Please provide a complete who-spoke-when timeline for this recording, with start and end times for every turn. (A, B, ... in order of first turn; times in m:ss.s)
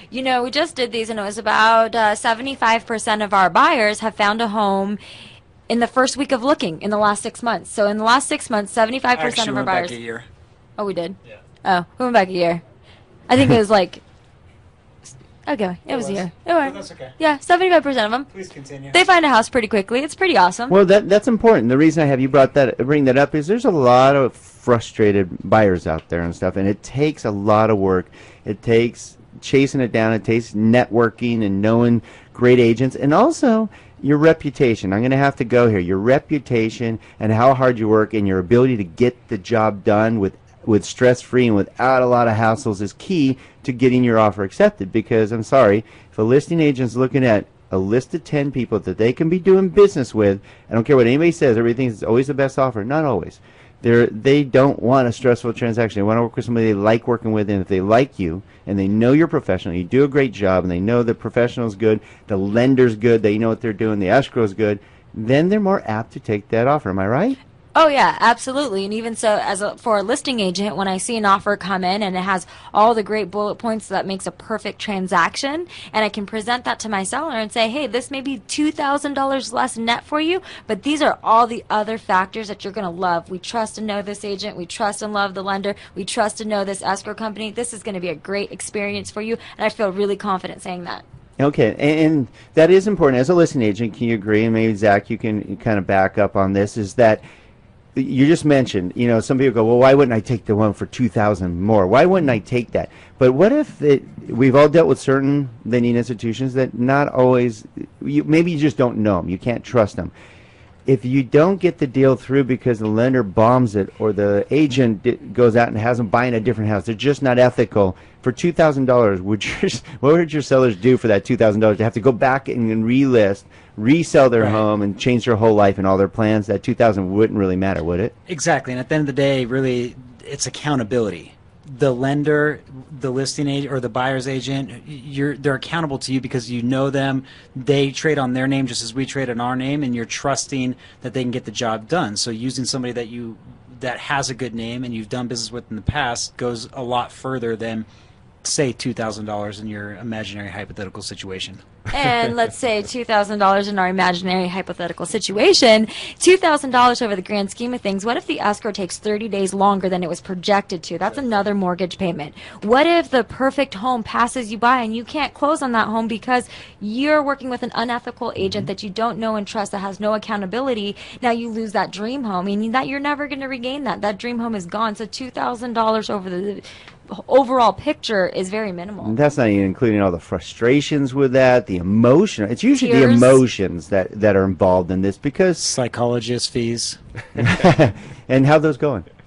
0:00.1-0:05.0 A
0:05.7-0:10.0 A
0:09.1-0:10.3 B
0:10.8-0:12.6 A
0:13.3-0:14.0 A
0:15.5-0:18.3 A
0:15.9-0:17.2 B
0:18.3-0:19.0 B
0:18.9-0:20.8 A
0:20.7-1:07.4 C
1:07.8-1:31.0 A
1:31.4-1:37.2 C
1:38.0-1:50.1 C
1:50.9-2:08.1 C
2:04.4-2:04.7 B
2:08.3-2:27.9 B
2:28.4-2:31.6 B
2:31.9-2:59.2 A
2:48.4-2:48.7 C
2:59.0-3:05.6 C
3:02.8-3:03.4 A
3:05.6-3:07.0 B
3:07.4-3:09.1 C